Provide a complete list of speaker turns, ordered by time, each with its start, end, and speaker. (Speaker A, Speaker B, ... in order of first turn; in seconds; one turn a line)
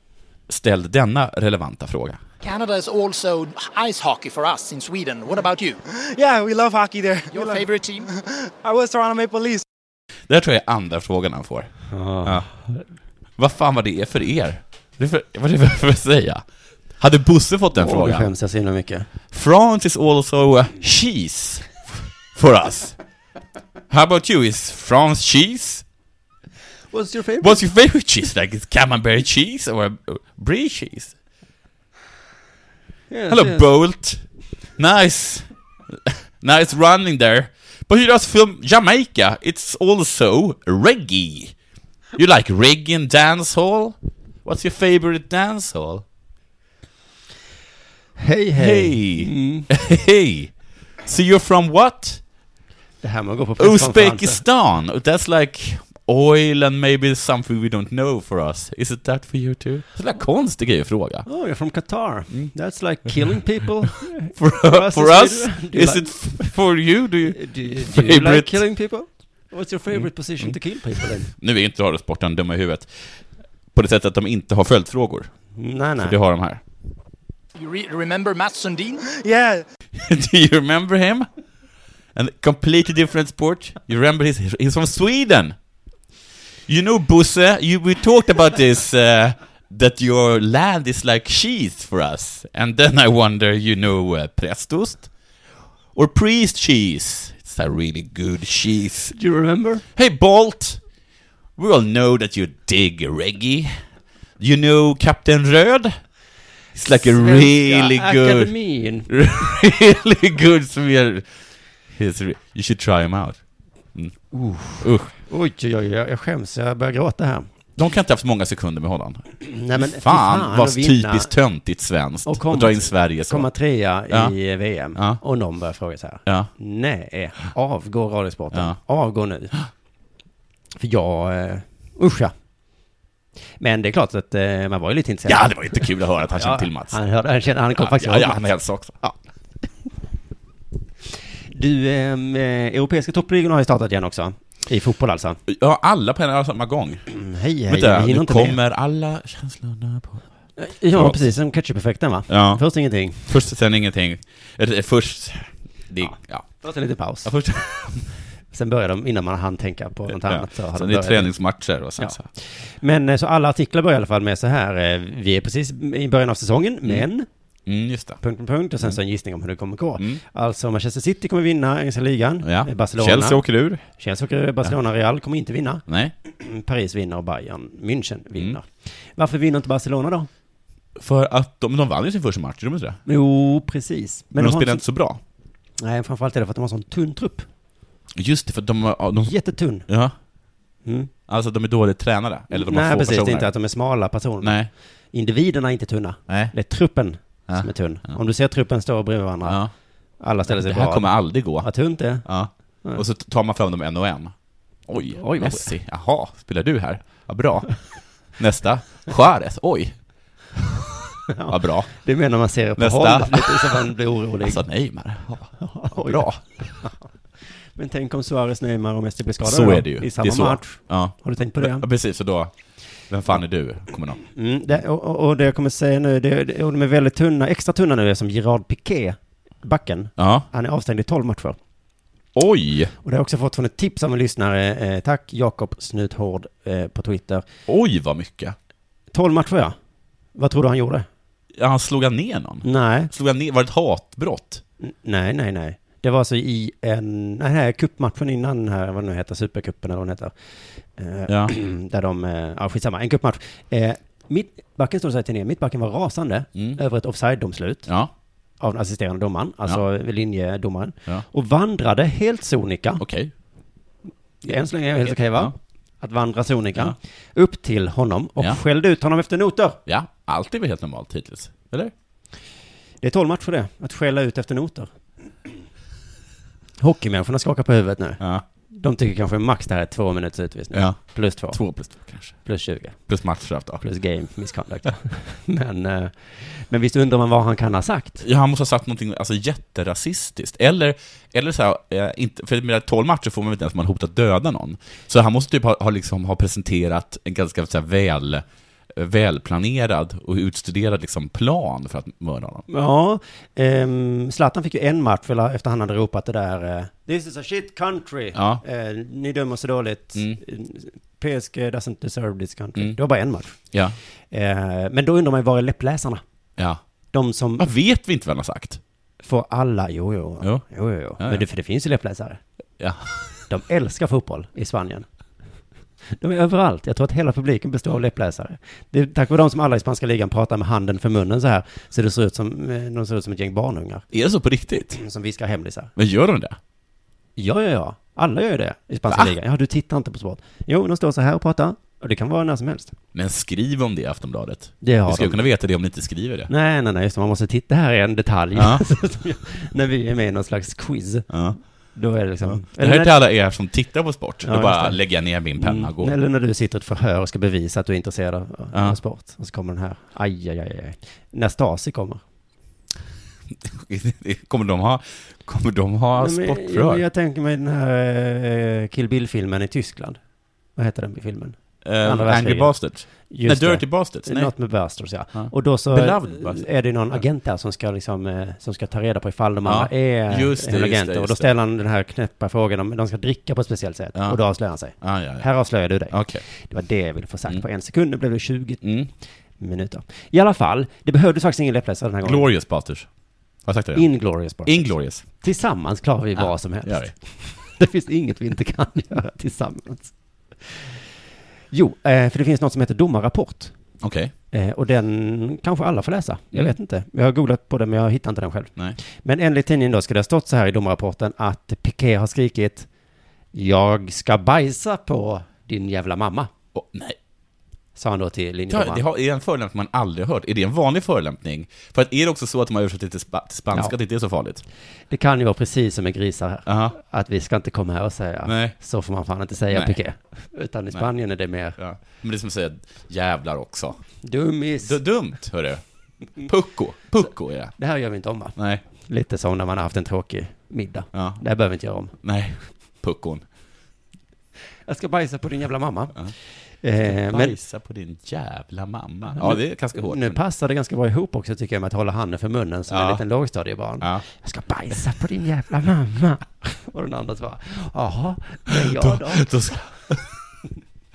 Speaker A: 0.5-2.2
Speaker B: 2.4-5.8
Speaker C: 5.9-9.6
Speaker B: 7.3-8.1
Speaker A: 10.3-12.5
Speaker D: 11.9-12.7
Speaker A: 13.4-16.4
Speaker A: 17.0-18.3
Speaker D: 17.8-19.1
Speaker A: 19.3-22.9
Speaker A: 23.9-25.8
Speaker D: 26.9-27.6
Speaker A: 27.4-31.1
Speaker D: 33.1-33.6
Speaker A: 33.3-34.2
Speaker A: 34.8-41.5
Speaker A: 42.1-46.0
Speaker D: 48.2-49.7
Speaker A: 48.5-52.2
Speaker D: 53.0-54.4
Speaker A: 53.6-61.2
Speaker D: 61.2-66.5
Speaker A: 64.3-68.6
Speaker D: 67.3-71.3
Speaker A: 71.3-73.2
Speaker A: 73.7-75.3
Speaker D: 75.5-76.2
Speaker A: 76.0-76.6
Speaker B: 77.5-79.0
Speaker C: 79.0-79.6
Speaker A: 79.9-81.3
Speaker A: 82.1-85.5
Speaker A: 86.7-95.1
Speaker A: 95.9-99.1
Speaker D: 99.1-99.8
Speaker A: 100.0-100.8
Speaker A: 101.6-103.8
Speaker A: 104.4-106.0
Speaker A: 106.7-108.5
Speaker D: 107.0-109.5
Speaker A: 109.1-111.3
Speaker A: 111.9-113.4
Speaker D: 114.3-117.5
Speaker A: 114.8-115.1
Speaker A: 117.8-123.5
Speaker D: 119.4-121.3
Speaker D: 122.2-129.5
Speaker A: 124.1-124.3
Speaker A: 124.9-125.2
Speaker D: 130.8-132.3
Speaker D: 133.6-138.5
Speaker A: 135.2-137.0
Speaker A: 137.7-139.0
Speaker D: 141.5-145.4
Speaker A: 145.5-147.1
Speaker D: 147.1-148.6
Speaker A: 147.7-150.2
Speaker D: 150.6-153.3
Speaker A: 150.9-151.2
Speaker A: 152.3-152.6
Speaker A: 153.2-156.5
Speaker D: 156.0-157.3
Speaker A: 157.2-158.1
Speaker D: 158.5-161.3
Speaker A: 160.1-162.3
Speaker D: 162.0-167.3
Speaker A: 167.7-168.2
Speaker D: 168.2-180.3
Speaker A: 172.4-173.8
Speaker A: 175.9-176.1
Speaker A: 180.9-183.0
Speaker D: 183.1-184.8
Speaker A: 184.3-185.2
Speaker D: 185.8-187.5
Speaker A: 188.2-189.3
Speaker D: 189.2-189.9
Speaker A: 189.8-190.1
Speaker D: 190.8-191.1
Speaker A: 191.3-193.5
Speaker D: 192.5-194.6
Speaker A: 194.4-194.7
Speaker D: 195.1-199.6
Speaker A: 196.3-196.5
Speaker A: 197.5-198.2
Speaker A: 199.4-199.7
Speaker D: 200.2-202.2
Speaker A: 200.4-201.7
Speaker A: 202.2-204.3
Speaker A: 204.9-207.8
Speaker D: 205.1-205.7
Speaker A: 208.3-210.0
Speaker A: 210.5-211.9
Speaker D: 211.3-214.6
Speaker A: 212.8-216.7
Speaker D: 215.6-216.3
Speaker D: 217.7-221.8
Speaker A: 219.4-222.5
Speaker A: 223.1-224.2
Speaker D: 224.3-231.6
Speaker A: 230.2-230.4
Speaker A: 232.3-232.9
Speaker D: 233.0-237.4
Speaker A: 237.7-238.6
Speaker D: 239.1-239.7
Speaker D: 240.3-241.1
Speaker A: 241.6-244.6
Speaker D: 242.6-243.1
Speaker D: 244.8-250.3
Speaker D: 250.9-257.9
Speaker A: 251.3-251.5
Speaker D: 258.6-263.0
Speaker A: 263.0-263.3
Speaker D: 264.4-269.8
Speaker A: 265.1-265.5
Speaker A: 269.9-271.9
Speaker D: 273.0-274.9
Speaker D: 276.8-283.1
Speaker A: 280.7-281.0
Speaker A: 281.5-282.4
Speaker A: 283.1-283.8
Speaker D: 283.8-288.2
Speaker A: 288.2-302.6
Speaker D: 302.7-313.6
Speaker A: 308.3-308.6
Speaker A: 310.1-310.4
Speaker A: 313.7-313.9
Speaker D: 314.3-316.2
Speaker D: 317.1-317.6
Speaker A: 317.6-318.8
Speaker D: 319.2-322.4
Speaker A: 321.2-321.4
Speaker A: 322.8-323.3
Speaker D: 323.5-325.1
Speaker D: 326.1-334.1
Speaker A: 334.1-335.0
Speaker D: 334.9-335.9
Speaker A: 336.0-336.6
Speaker D: 337.4-342.9
Speaker A: 343.1-346.5
Speaker D: 344.8-345.4
Speaker D: 346.5-351.3
Speaker A: 348.6-348.8
Speaker A: 351.3-351.6
Speaker D: 351.9-353.1
Speaker A: 352.5-356.1
Speaker D: 354.4-355.0
Speaker D: 355.5-362.2
Speaker A: 363.6-367.0
Speaker D: 366.2-370.2
Speaker D: 370.8-389.0
Speaker A: 371.8-374.5
Speaker A: 375.3-376.7
Speaker A: 379.6-381.5
Speaker A: 385.0-385.5
Speaker A: 386.1-386.4
Speaker A: 388.8-389.1
Speaker D: 389.6-392.5
Speaker A: 392.2-393.1
Speaker A: 393.6-394.1
Speaker D: 393.9-400.1
Speaker A: 394.6-395.2
Speaker A: 396.8-397.1
Speaker D: 400.6-400.9
Speaker D: 401.7-403.7
Speaker A: 404.0-404.3
Speaker D: 404.5-412.9
Speaker D: 413.5-416.5
Speaker A: 416.7-417.2
Speaker D: 417.9-419.0
Speaker A: 418.7-424.6
Speaker D: 425.1-431.8
Speaker A: 426.6-426.9
Speaker A: 428.4-428.7
Speaker A: 429.7-430.0
Speaker A: 431.8-434.0
Speaker D: 434.2-434.9
Speaker A: 434.8-435.8
Speaker A: 436.4-437.7
Speaker D: 437.8-442.1
Speaker A: 438.6-438.8
Speaker A: 441.1-441.4
Speaker A: 442.2-443.4
Speaker D: 444.9-447.6
Speaker A: 447.0-450.4
Speaker D: 449.3-459.5
Speaker A: 452.9-453.2
Speaker A: 458.9-460.3